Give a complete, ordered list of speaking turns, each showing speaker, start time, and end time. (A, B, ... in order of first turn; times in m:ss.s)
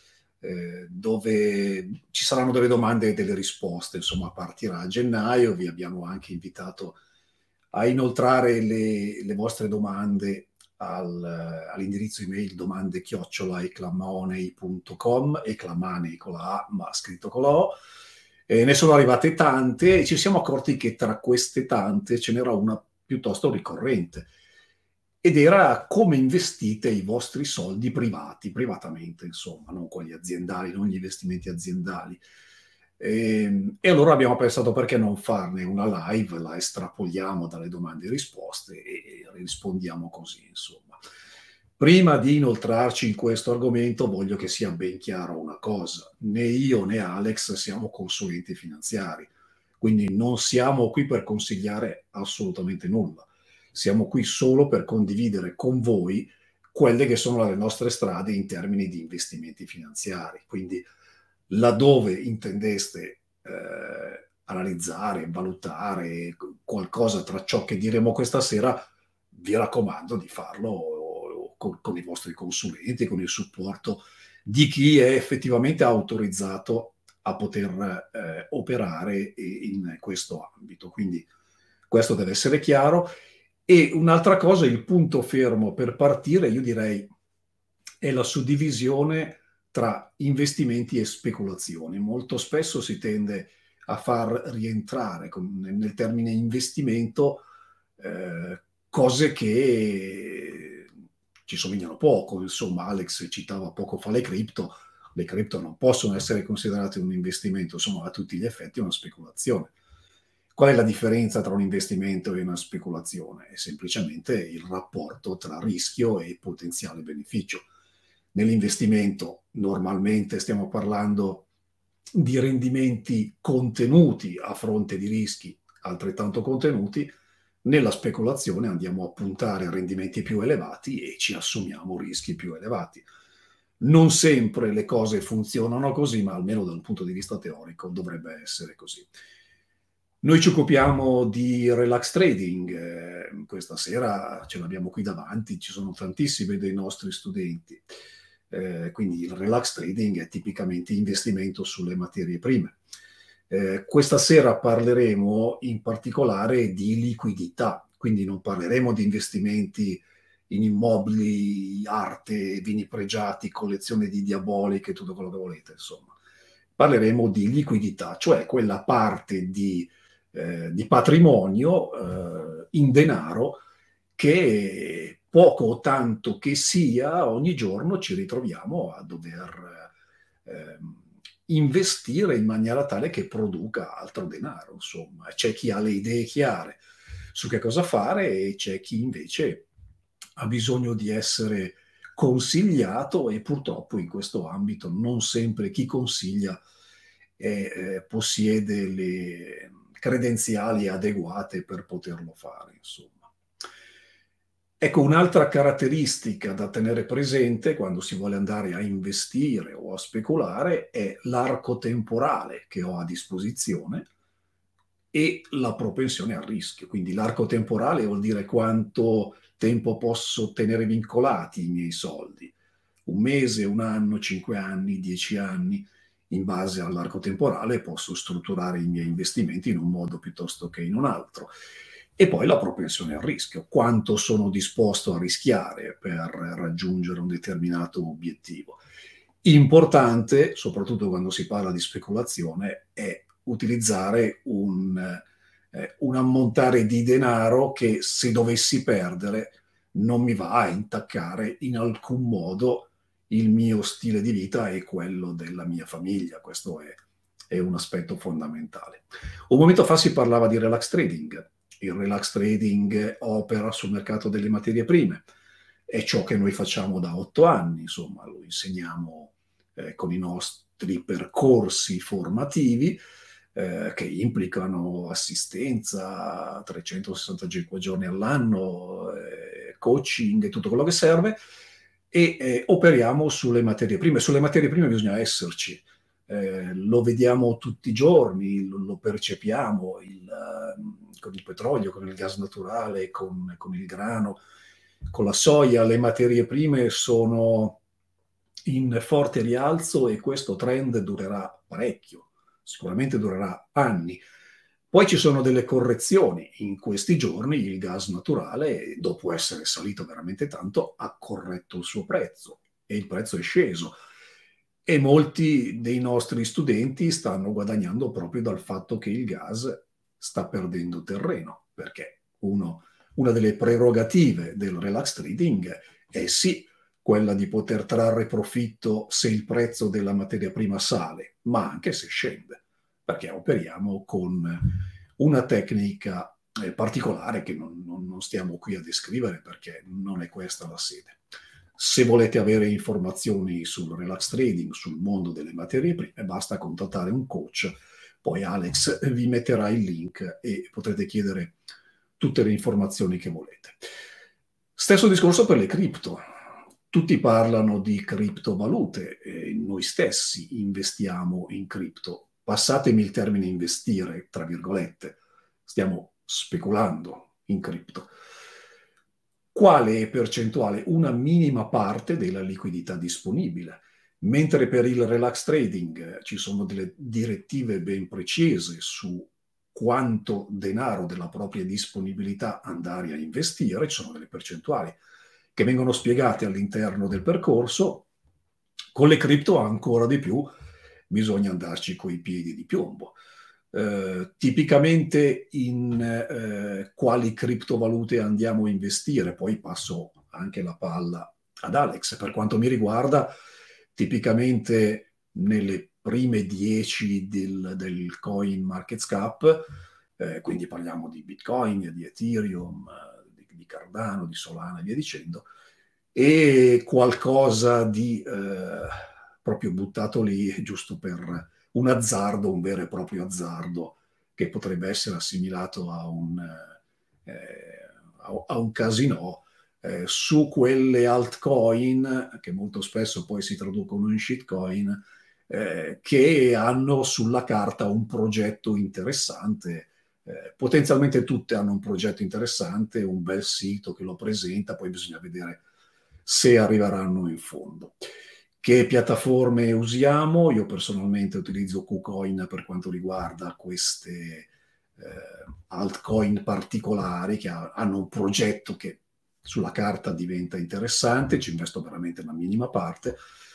0:00.4-0:07.0 A
0:07.7-0:17.8 A
0:18.5-0:24.3 A
0:25.2-0:32.2 A
0:33.0-0:41.0 A
0:41.8-1:00.8 A
1:01.5-1:08.8 A
1:09.3-1:21.3 A
1:21.9-1:23.1 A
1:23.7-1:27.1 A
1:28.0-1:37.5 A
1:38.0-1:40.9 A
1:41.5-1:49.7 A
1:50.6-1:57.7 A
1:58.3-2:01.5 A
2:02.1-2:07.1 A
2:07.6-2:13.1 A
2:13.8-2:19.1 A
2:20.2-2:27.8 A
2:28.5-2:32.8 A
2:33.5-2:46.2 A
2:46.8-2:53.6 A
2:54.2-2:59.9 A
3:00.4-3:06.8 A
3:07.3-3:09.7 A
3:10.4-3:16.6 A
3:17.4-3:23.3 A
3:24.8-3:34.1 A
3:35.1-3:42.6 A
3:43.1-3:51.5 A
3:52.2-3:58.8 A
3:59.4-4:25.2 A
4:25.9-4:33.0 A
4:33.5-4:41.4 A
4:42.1-4:54.4 A
4:55.1-4:57.8 A
4:58.7-5:04.2 A
5:04.9-5:14.0 A
5:14.9-5:41.2 A
5:41.8-5:51.6 A
5:52.2-5:53.8 A
5:54.8-5:56.2 A
5:56.9-6:08.1 A
6:09.5-6:25.0 A
6:25.6-6:28.1 A
6:28.9-6:30.5 A
6:31.1-6:33.2 A
6:33.7-6:43.3 A
6:44.0-6:49.7 A
6:50.2-6:55.5 A
6:56.1-7:06.7 A
7:07.3-7:25.6 A
7:26.2-7:28.0 A
7:28.6-7:43.2 A